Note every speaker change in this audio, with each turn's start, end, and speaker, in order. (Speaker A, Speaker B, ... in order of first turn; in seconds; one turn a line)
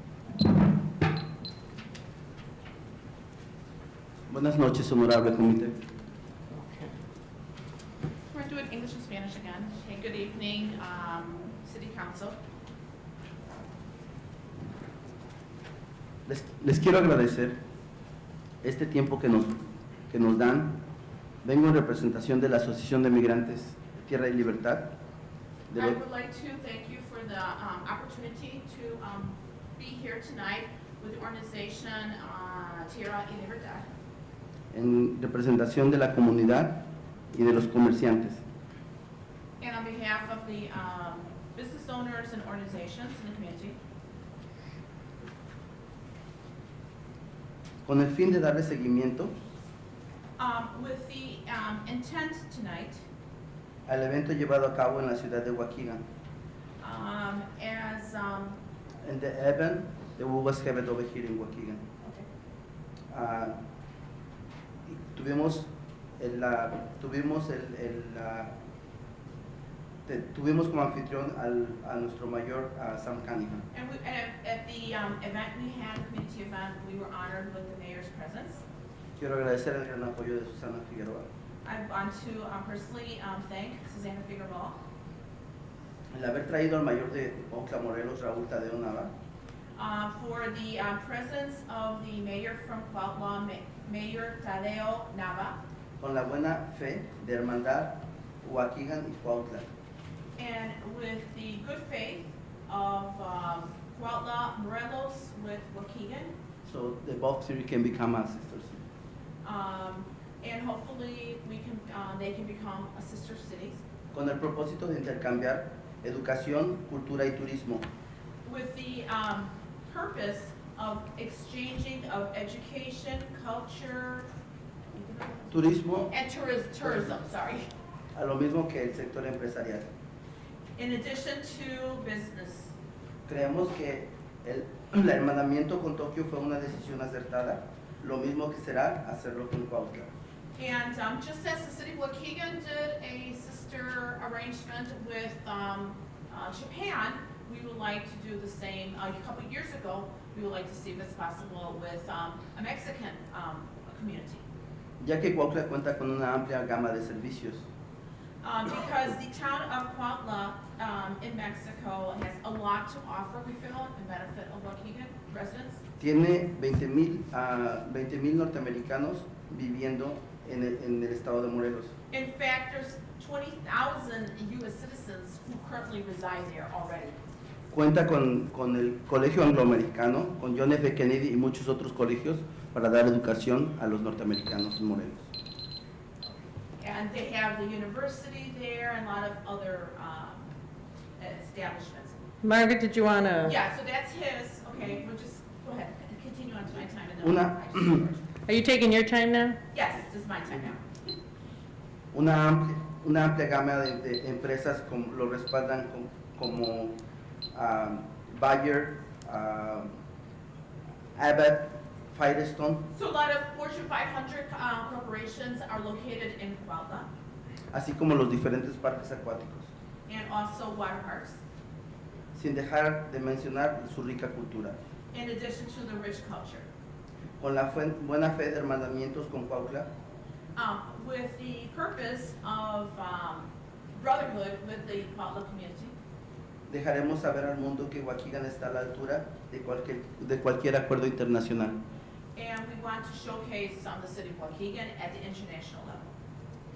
Speaker A: 4.3-5.7
Speaker B: 6.6-6.9
Speaker C: 8.3-12.4
Speaker A: 16.2-17.5
Speaker A: 18.6-19.6
Speaker A: 20.1-20.7
Speaker A: 21.4-24.9
Speaker A: 25.7-26.0
Speaker C: 25.7-33.9
Speaker A: 34.7-38.4
Speaker C: 39.6-43.8
Speaker A: 47.8-49.3
Speaker C: 50.4-53.0
Speaker A: 53.9-56.0
Speaker C: 56.8-58.6
Speaker A: 59.0-61.8
Speaker A: 63.1-63.6
Speaker A: 64.9-68.5
Speaker A: 70.0-73.7
Speaker C: 73.7-78.6
Speaker A: 79.2-81.2
Speaker C: 81.6-84.8
Speaker A: 86.1-89.1
Speaker C: 89.8-95.6
Speaker A: 96.0-99.7
Speaker C: 100.4-106.3
Speaker A: 106.6-108.8
Speaker C: 109.4-113.8
Speaker A: 114.1-117.9
Speaker C: 118.4-124.3
Speaker C: 124.9-125.5
Speaker A: 125.5-126.1
Speaker C: 126.1-127.7
Speaker A: 128.1-129.9
Speaker C: 130.8-132.7
Speaker A: 133.3-140.1
Speaker C: 140.6-154.4
Speaker A: 155.0-157.6
Speaker C: 158.4-165.8
Speaker A: 166.0-171.9
Speaker C: 172.1-177.2
Speaker A: 177.7-185.2
Speaker C: 186.8-190.5
Speaker C: 191.2-192.2
Speaker B: 192.4-193.5
Speaker C: 193.4-198.2
Speaker A: 197.2-198.0
Speaker B: 198.4-199.6
Speaker C: 199.7-200.8
Speaker A: 202.1-206.9
Speaker A: 207.5-209.9
Speaker A: 211.2-212.8
Speaker C: 212.9-217.1
Speaker A: 217.7-219.7
Speaker C: 220.1-221.4
Speaker A: 222.3-224.7
Speaker C: 225.1-226.7
Speaker A: 227.4-229.9
Speaker C: 230.6-235.9
Speaker A: 236.7-241.8
Speaker C: 242.3-246.1